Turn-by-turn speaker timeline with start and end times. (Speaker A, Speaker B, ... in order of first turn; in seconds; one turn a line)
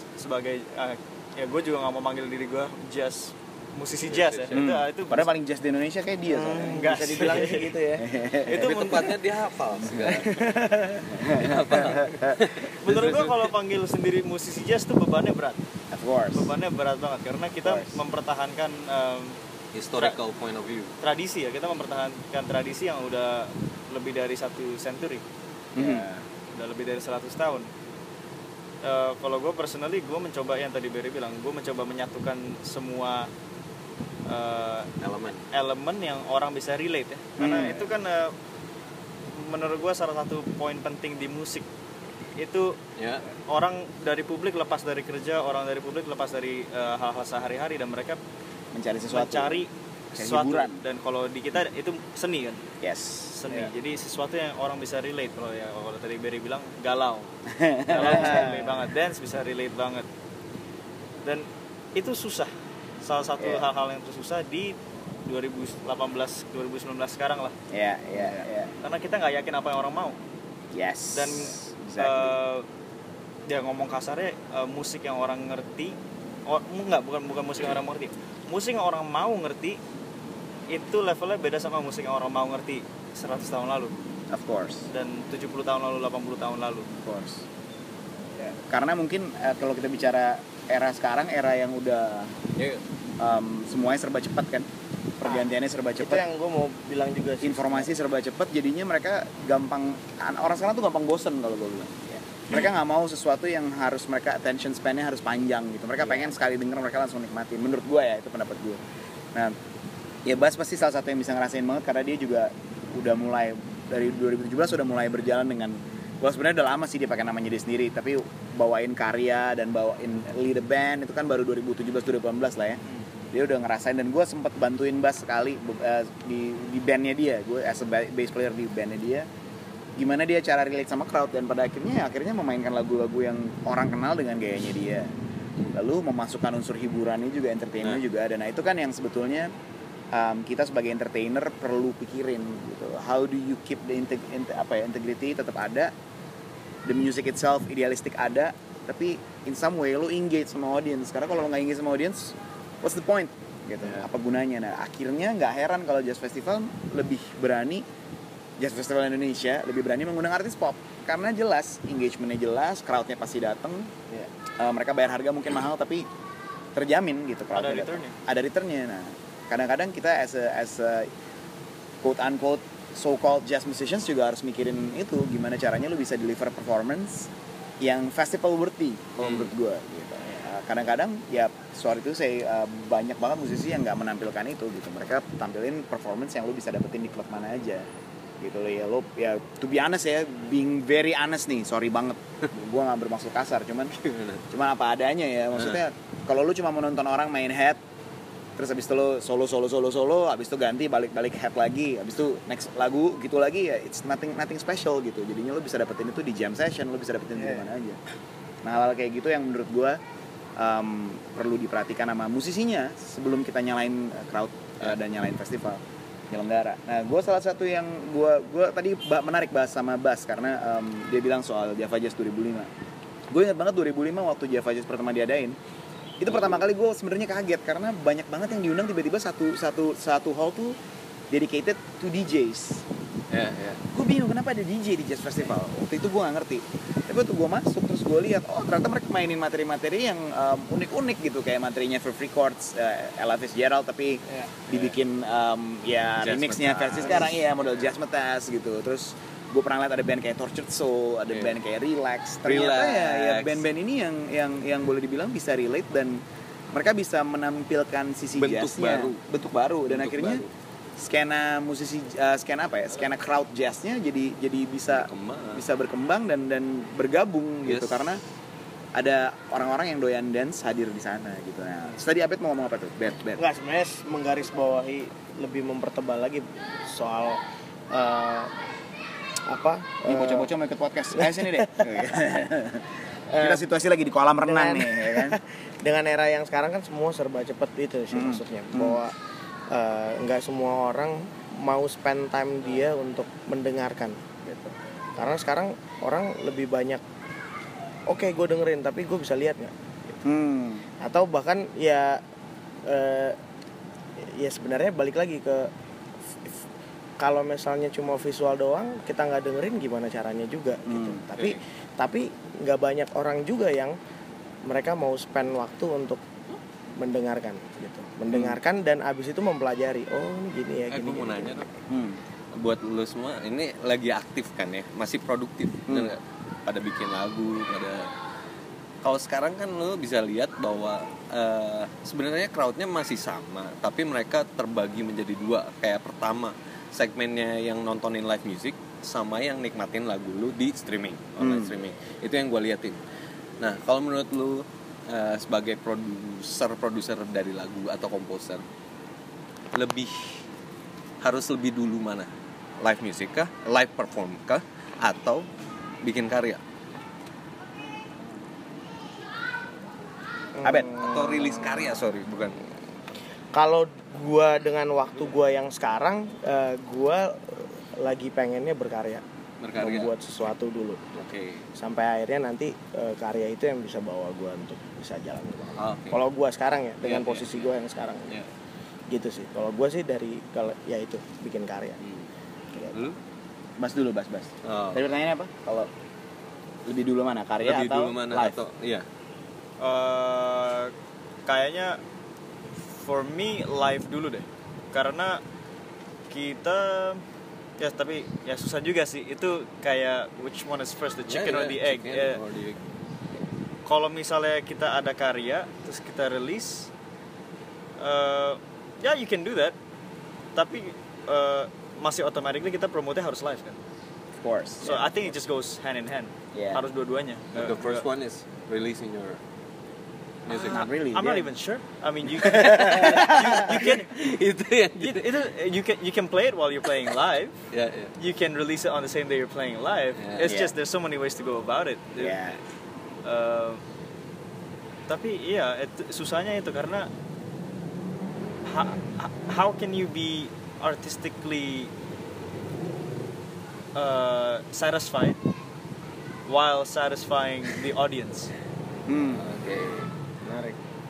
Speaker A: 0.2-5.3
Speaker B: 4.1-4.6
Speaker C: 4.5-7.3
Speaker D: 6.3-8.1
Speaker A: 6.5-7.7
Speaker C: 8.0-9.0
Speaker A: 8.4-9.1
Speaker B: 8.5-10.5
Speaker D: 10.0-11.1
Speaker C: 11.1-12.4
Speaker B: 11.2-13.5
Speaker A: 12.8-15.6
Speaker C: 15.9-16.5
Speaker A: 16.3-19.4
Speaker C: 17.6-18.0
Speaker B: 19.7-20.9
Speaker A: 21.0-25.2
Speaker C: 25.7-26.1
Speaker A: 26.5-27.7
Speaker A: 28.8-33.3
Speaker A: 34.2-34.9
Speaker B: 35.0-35.4
Speaker A: 35.5-38.4
Speaker C: 37.4-37.9
Speaker A: 39.3-41.7
Speaker A: 42.4-42.8
Speaker B: 43.0-43.2
Speaker A: 43.5-48.2
Speaker C: 48.7-49.6
Speaker A: 49.1-52.6
Speaker C: 50.1-50.8
Speaker C: 52.8-53.7
Speaker A: 53.3-57.3
Speaker C: 57.5-58.6
Speaker A: 57.9-60.1
Speaker D: 57.9-58.7
Speaker A: 61.2-62.5
Speaker A: 63.0-67.5
Speaker C: 63.4-63.6
Speaker C: 67.7-68.7
Speaker A: 68.8-70.2
Speaker C: 70.7-72.3
Speaker A: 71.1-72.6
Speaker A: 73.5-76.0
Speaker A: 76.5-79.8
Speaker A: 80.7-83.9
Speaker C: 84.3-84.9
Speaker A: 84.9-86.9
Speaker C: 87.0-87.4
Speaker C: 88.7-92.3
Speaker B: 92.5-92.8
Speaker C: 93.2-96.2
Speaker D: 95.2-97.9
Speaker C: 97.4-108.8
Speaker D: 106.0-106.3
Speaker C: 110.2-122.8
Speaker C: 123.3-129.2
Speaker C: 130.0-135.1
Speaker C: 135.7-139.5
Speaker C: 140.1-145.9
Speaker C: 146.8-157.8
Speaker C: 158.6-163.9
Speaker C: 164.6-166.1
Speaker C: 166.7-171.1
Speaker A: 167.5-168.1
Speaker C: 172.0-177.3
Speaker C: 177.8-187.8
Speaker B: 179.2-179.5
Speaker C: 188.4-194.0
Speaker B: 194.0-194.4
Speaker C: 194.5-197.8
Speaker C: 198.6-208.0
Speaker C: 208.6-210.0
Speaker C: 210.6-222.7
Speaker C: 223.3-225.6
Speaker C: 226.2-230.8
Speaker B: 226.3-226.7
Speaker C: 231.3-232.8
Speaker B: 233.3-233.8
Speaker C: 233.9-256.2
Speaker B: 246.2-247.4
Speaker B: 251.3-251.6
Speaker B: 252.4-253.6
Speaker C: 256.7-260.4
Speaker B: 258.3-259.2
Speaker B: 259.9-260.5
Speaker C: 261.0-268.2
Speaker B: 264.9-265.6
Speaker B: 267.6-268.1
Speaker C: 268.9-273.4
Speaker D: 273.4-278.5
Speaker D: 279.5-280.5
Speaker C: 280.0-285.4
Speaker D: 281.1-281.9
Speaker D: 283.3-283.7
Speaker D: 284.4-289.1
Speaker C: 288.1-289.0
Speaker D: 289.7-294.3
Speaker C: 294.4-294.7
Speaker D: 295.1-297.0
Speaker D: 298.1-300.2
Speaker C: 300.2-300.9
Speaker D: 301.0-302.2
Speaker D: 302.8-303.4
Speaker D: 304.2-305.7
Speaker D: 307.2-313.9
Speaker C: 310.9-311.2
Speaker D: 314.6-316.2
Speaker D: 316.9-321.6
Speaker C: 318.3-318.6
Speaker B: 320.9-321.7
Speaker C: 321.9-322.2
Speaker B: 322.5-328.1
Speaker C: 325.9-326.1
Speaker B: 329.0-343.0
Speaker C: 341.4-341.8
Speaker B: 343.6-348.6
Speaker B: 349.7-350.4
Speaker B: 351.2-352.3
Speaker B: 352.8-355.5
Speaker B: 356.0-356.6
Speaker D: 360.6-362.0
Speaker B: 360.8-362.6
Speaker D: 363.5-369.2
Speaker B: 369.6-370.1
Speaker D: 369.8-371.0
Speaker B: 371.1-371.6
Speaker D: 371.8-378.3
Speaker B: 375.8-376.2
Speaker B: 377.0-377.7
Speaker D: 379.1-382.0
Speaker B: 382.0-382.3
Speaker C: 383.8-385.9
Speaker B: 384.6-385.0
Speaker C: 386.9-388.6
Speaker B: 387.6-389.0
Speaker A: 389.8-390.9
Speaker A: 391.4-392.0
Speaker A: 392.9-395.4
Speaker A: 396.3-397.2
Speaker A: 397.8-402.4
Speaker B: 401.3-402.8
Speaker A: 403.9-406.9
Speaker A: 408.0-409.7
Speaker A: 410.5-413.8
Speaker C: 414.4-415.1
Speaker A: 414.8-418.0
Speaker C: 416.5-416.8
Speaker B: 417.5-419.4
Speaker B: 420.5-420.9
Speaker A: 420.5-424.1
Speaker D: 420.5-421.4
Speaker B: 422.4-425.3
Speaker A: 424.9-427.5
Speaker B: 427.7-428.1
Speaker A: 428.2-432.4
Speaker B: 430.2-430.5
Speaker C: 430.4-430.7
Speaker C: 432.2-432.6
Speaker A: 433.2-433.8
Speaker A: 435.1-437.1
Speaker A: 438.6-441.9
Speaker A: 443.9-445.4
Speaker A: 446.5-448.5
Speaker C: 449.1-449.4
Speaker B: 449.4-450.1
Speaker D: 450.4-450.8